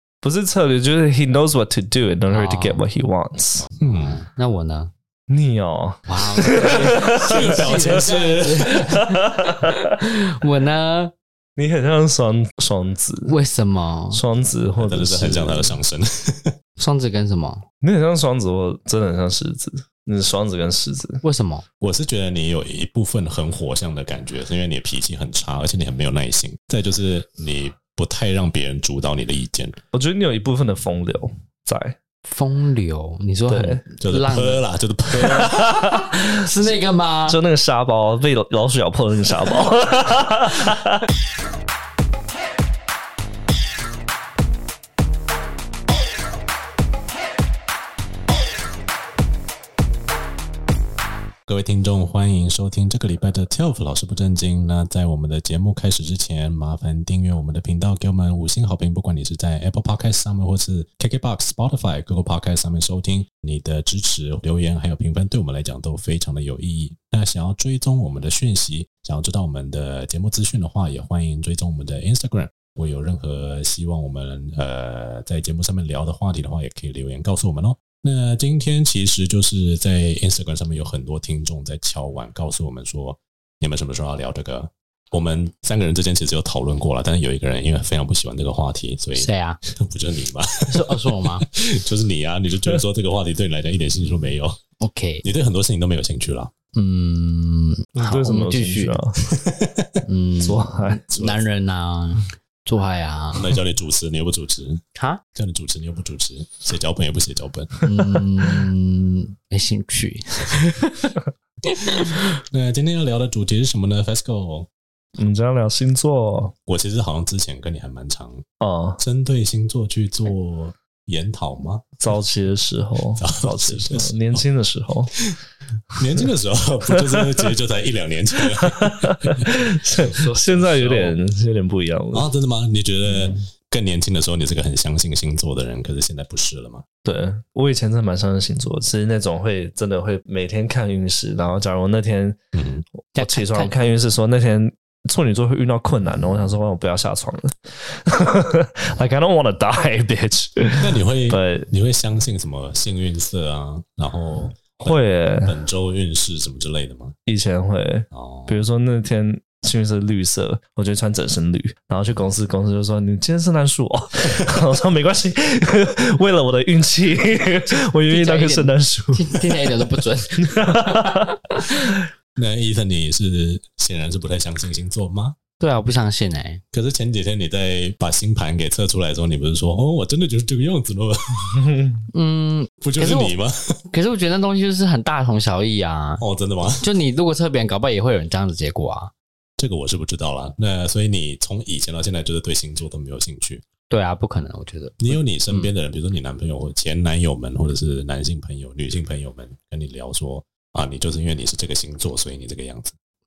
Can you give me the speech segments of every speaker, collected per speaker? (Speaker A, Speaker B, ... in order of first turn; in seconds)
Speaker A: 0.2-3.7, 5.3-8.0, 8.8-9.7, 11.6-13.3, 14.1-15.8, 17.8-21.2, 29.9-32.0, 33.5-33.8, 35.4-36.1, 37.3-41.0, 98.0-99.2, 100.4-101.0, 115.2-116.5, 118.6-119.0, 122.0-125.1, 127.0-127.5, 128.6-132.3, 137.0-142.4, 143.1-151.7, 154.8-155.6, 157.3-172.1, 181.6-182.0
Speaker B: 2.3-2.8, 3.9-4.9, 6.1-9.7, 10.4-11.1, 13.3-14.2, 16.8-17.6, 21.2-21.6, 32.3-34.6, 36.3-37.4, 89.2-89.6, 90.7-91.5, 94.8-95.2, 96.8-99.0, 100.0-103.5, 105.0-105.2, 107.9-111.1, 111.8-112.2, 130.1-131.1, 143.2-143.7, 167.7-171.9, 175.6-176.6, 182.1-183.3, 183.9-186.2, 186.8-189.1, 193.9-195.7
Speaker C: 3.8-4.3, 7.2-9.0, 14.8-16.5, 21.8-29.8, 34.0-35.8, 51.5-94.6, 95.2-96.5, 99.3-99.9, 101.1-101.4, 103.4-104.8, 105.3-107.8, 112.5-114.7, 116.7-118.4, 119.0-121.9, 123.2-124.4, 126.0-129.5, 132.1-136.9, 142.5-142.9, 150.8-157.2, 158.1-158.6, 172.4-175.4, 176.7-181.8, 182.8-183.6, 186.2-186.9, 189.6-193.7, 195.0-202.9